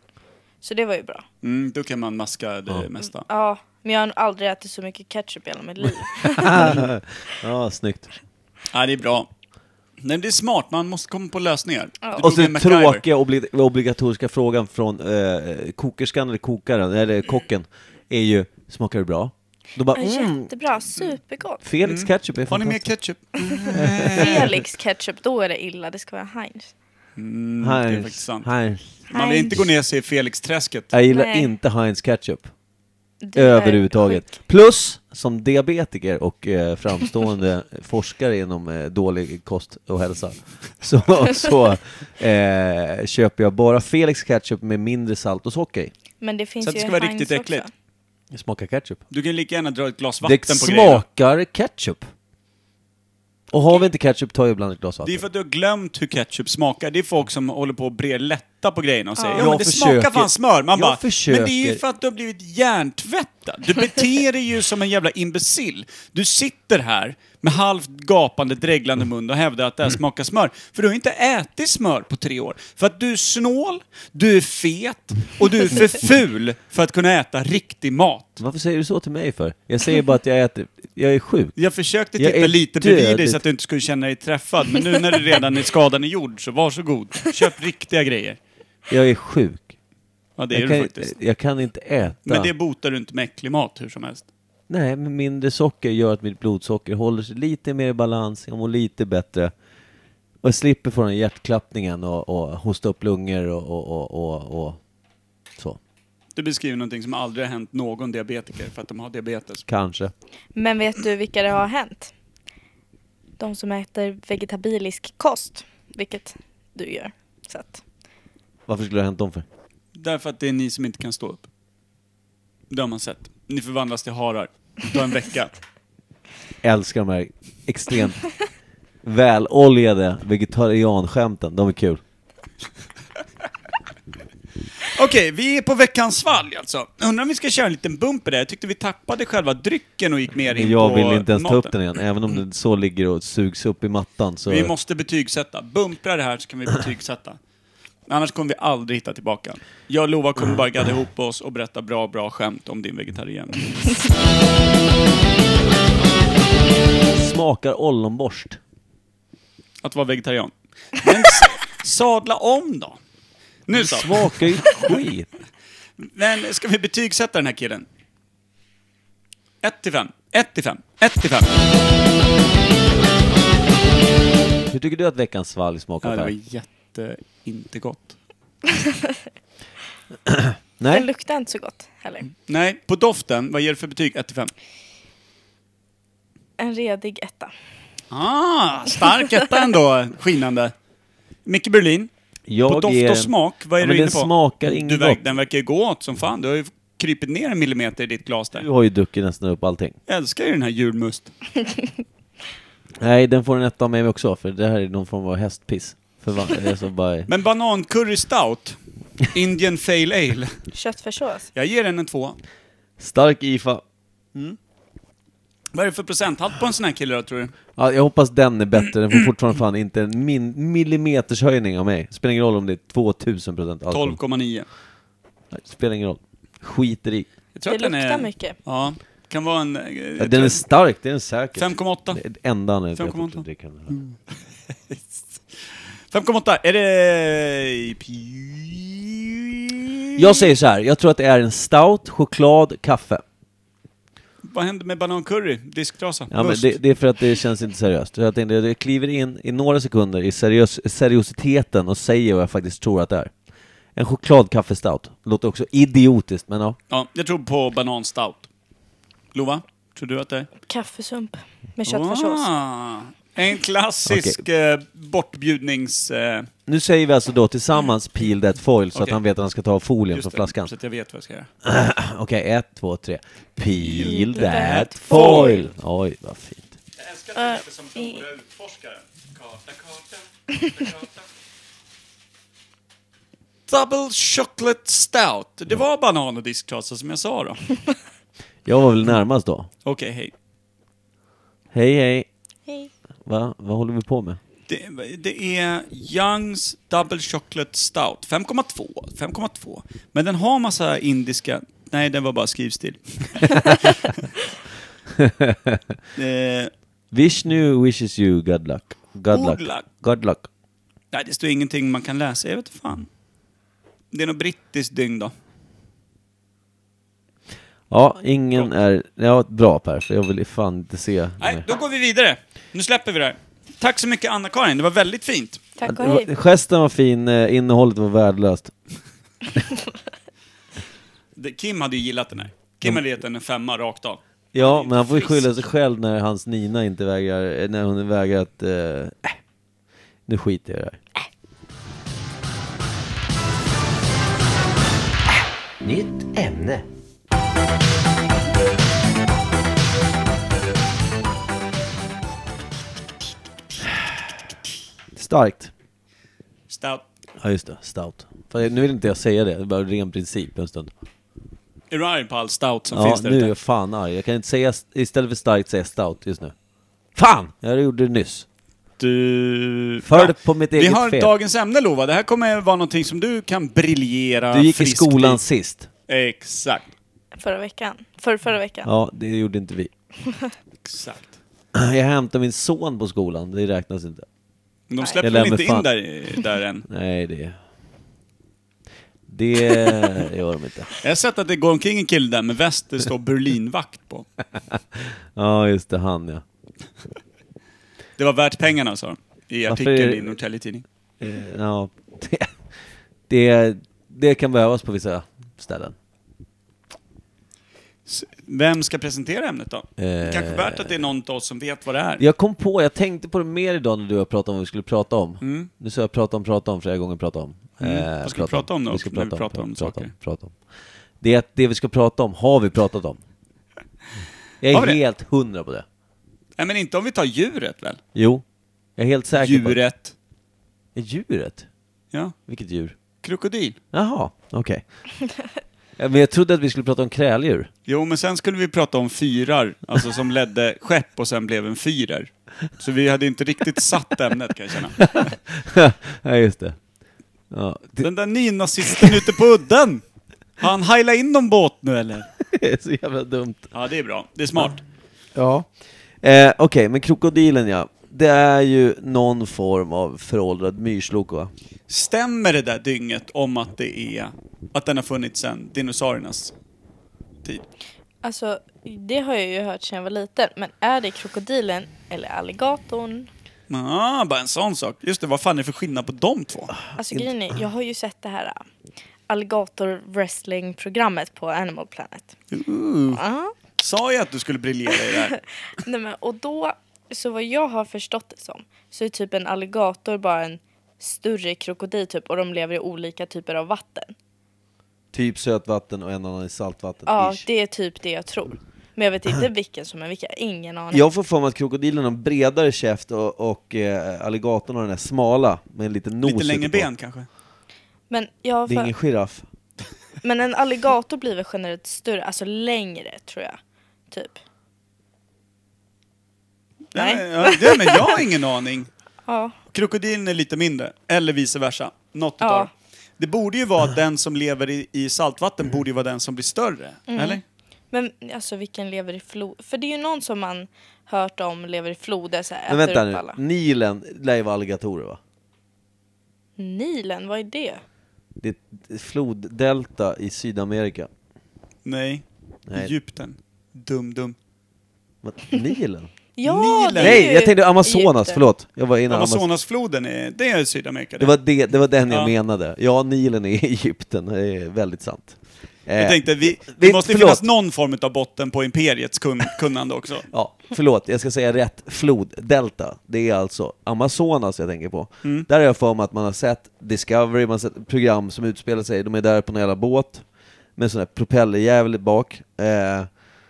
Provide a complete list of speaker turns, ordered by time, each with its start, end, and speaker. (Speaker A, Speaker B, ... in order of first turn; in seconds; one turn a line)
Speaker A: 0.6-1.2
Speaker B: 1.4-3.3
Speaker A: 3.3-6.8
Speaker C: 6.3-8.1
Speaker B: 8.7-9.3
Speaker B: 10.0-13.0
Speaker C: 12.2-20.5
Speaker A: 19.9-21.6
Speaker C: 21.6-22.9
Speaker B: 21.8-24.5
Speaker C: 23.7-24.5
Speaker A: 24.2-26.7
Speaker B: 27.2-28.5
Speaker C: 27.6-29.0
Speaker B: 29.1-30.9
Speaker A: 29.1-29.6
Speaker C: 30.9-32.5
Speaker A: 31.1-31.5
Speaker A: 33.2-34.4
Speaker C: 33.3-45.9
Speaker A: 46.2-47.7
Speaker B: 46.6-47.7
Speaker C: 48.3-49.0
Speaker B: 49.1-51.0
Speaker C: 50.2-52.1
Speaker C: 53.5-55.2
Speaker B: 55.0-78.4
Speaker A: 59.2-59.5
Speaker C: 59.4-61.8
Speaker C: 78.4-81.6
Speaker B: 81.6-88.4
Speaker C: 82.2-83.4
Speaker C: 88.9-89.7
Speaker B: 90.4-91.1
Speaker C: 90.5-92.5
Speaker B: 92.3-94.2
Speaker C: 94.7-99.5
Speaker C: 100.4-104.8
Speaker B: 106.4-109.6
Speaker C: 109.7-110.1
Speaker A: 110.5-112.1
Speaker A: 113.4-117.8
Speaker C: 118.7-119.5
Speaker B: 120.0-121.5
Speaker B: 122.7-125.5
Speaker C: 126.6-128.2
Speaker C: 129.0-132.0
Speaker B: 134.9-141.7
Speaker C: 140.5-144.7
Speaker B: 144.5-147.4
Speaker B: 148.1-153.9
Speaker C: 157.1-158.6
Speaker B: 159.8-163.0
Speaker B: 163.7-165.0
Speaker C: 163.7-165.3
Speaker B: 166.0-167.9
Speaker B: 169.6-171.5
Speaker C: 174.7-176.3
Speaker B: 176.0-178.2
Speaker C: 180.3-181.1
Speaker A: 180.9-182.3
Speaker B: 182.5-184.5
Speaker A: 186.6-187.5
Speaker B: 188.1-190.7
Speaker B: 191.4-192.1
Speaker C: 192.5-195.2
Speaker B: 192.7-198.7
Speaker C: 198.6-200.0
Speaker B: 200.1-201.3
Speaker C: 203.0-207.3
Speaker B: 207.3-210.6
Speaker A: 210.7-211.5
Speaker B: 211.6-212.4
Speaker C: 213.0-213.8
Speaker B: 215.7-217.5
Speaker C: 217.8-224.2
Speaker B: 223.9-224.7
Speaker C: 225.5-227.3
Speaker B: 227.6-230.6
Speaker A: 227.7-228.6
Speaker C: 230.2-233.9
Speaker B: 231.6-232.2
Speaker B: 232.9-234.2
Speaker B: 234.9-235.3
Speaker B: 236.1-240.4
Speaker C: 240.2-243.2
Speaker B: 244.4-246.8
Speaker C: 246.3-253.3
Speaker C: 254.0-256.8
Speaker B: 256.9-258.5
Speaker B: 259.3-260.5
Speaker A: 260.7-262.5
Speaker B: 261.9-266.5
Speaker C: 264.1-264.4
Speaker C: 266.7-270.7
Speaker B: 268.9-269.2
Speaker B: 270.1-271.5
Speaker C: 271.6-276.7
Speaker B: 273.9-275.7
Speaker A: 274.0-275.7
Speaker B: 277.0-281.3
Speaker A: 277.4-278.2
Speaker B: 283.7-287.6
Speaker C: 288.7-289.7
Speaker B: 289.9-290.3
Speaker C: 291.7-292.3
Speaker C: 293.3-294.4
Speaker B: 294.7-304.1
Speaker C: 305.1-305.8
Speaker B: 306.1-306.7
Speaker C: 307.1-310.5
Speaker B: 309.3-309.9
Speaker B: 311.1-313.1
Speaker B: 314.1-315.3
Speaker C: 317.9-321.6
Speaker B: 321.4-325.6
Speaker A: 325.8-326.3
Speaker C: 325.8-328.7
Speaker B: 331.4-335.5
Speaker C: 334.5-339.4
Speaker C: 340.3-341.0
Speaker C: 345.8-346.9
Speaker C: 355.1-355.7
Speaker B: 356.7-357.0
Speaker C: 357.4-360.9
Speaker B: 361.9-363.5
Speaker C: 362.9-366.5
Speaker C: 367.1-368.5
Speaker B: 369.0-375.4
Speaker C: 370.0-371.3
Speaker C: 374.5-375.9
Speaker B: 376.1-376.9
Speaker A: 377.4-378.9
Speaker C: 378.8-379.9
Speaker B: 380.8-381.3
Speaker C: 381.7-384.3
Speaker B: 384.9-386.9
Speaker C: 385.2-385.9
Speaker C: 386.9-387.6
Speaker C: 389.3-390.9
Speaker B: 391.0-394.3
Speaker C: 394.8-396.4
Speaker B: 398.2-400.8
Speaker C: 399.7-400.4
Speaker C: 401.2-402.5
Speaker C: 403.3-406.0
Speaker B: 408.1-412.2
Speaker C: 410.0-411.0
Speaker C: 412.2-420.6
Speaker B: 415.4-415.7
Speaker B: 417.8-420.1
Speaker C: 421.2-423.2
Speaker C: 424.6-425.9
Speaker B: 424.7-425.0
Speaker B: 426.6-428.0
Speaker C: 428.1-428.4
Speaker C: 429.0-429.8
Speaker B: 429.4-430.1
Speaker C: 430.9-431.7
Speaker C: 432.5-432.9
Speaker B: 433.2-433.8
Speaker C: 433.9-434.8
Speaker C: 436.0-437.7
Speaker B: 437.9-445.3
Speaker C: 445.0-446.8
Speaker C: 447.5-448.1
Speaker B: 448.0-450.0
Speaker C: 448.9-449.2
Speaker B: 450.6-452.3
Speaker C: 452.5-453.7
Speaker B: 453.7-454.8
Speaker C: 455.4-461.5
Speaker B: 461.9-466.5
Speaker A: 468.2-473.3
Speaker B: 473.7-476.8
Speaker A: 477.0-478.6
Speaker C: 477.0-477.3
Speaker A: 479.3-482.3
Speaker B: 482.5-483.2
Speaker A: 483.1-483.5
Speaker B: 483.8-485.4
Speaker A: 485.8-494.1
Speaker C: 495.1-497.4
Speaker A: 497.1-501.0
Speaker C: 500.9-506.9
Speaker B: 506.2-507.3
Speaker A: 508.1-508.9
Speaker C: 508.7-509.4
Speaker A: 510.2-513.6
Speaker A: 514.1-514.4
Speaker B: 516.9-518.9
Speaker A: 517.0-518.2
Speaker A: 519.3-519.5
Speaker B: 519.7-527.4
Speaker A: 522.4-522.7
Speaker A: 527.1-533.4
Speaker C: 532.7-535.2
Speaker A: 536.6-537.8
Speaker C: 538.4-541.1
Speaker B: 541.9-544.4
Speaker C: 542.7-542.9
Speaker C: 545.2-546.1
Speaker A: 546.4-548.4
Speaker B: 546.4-547.3
Speaker C: 547.0-549.5
Speaker B: 549.1-551.3
Speaker C: 551.2-557.5
Speaker B: 552.1-552.3
Speaker B: 556.0-560.3
Speaker C: 560.3-570.2
Speaker C: 570.8-573.1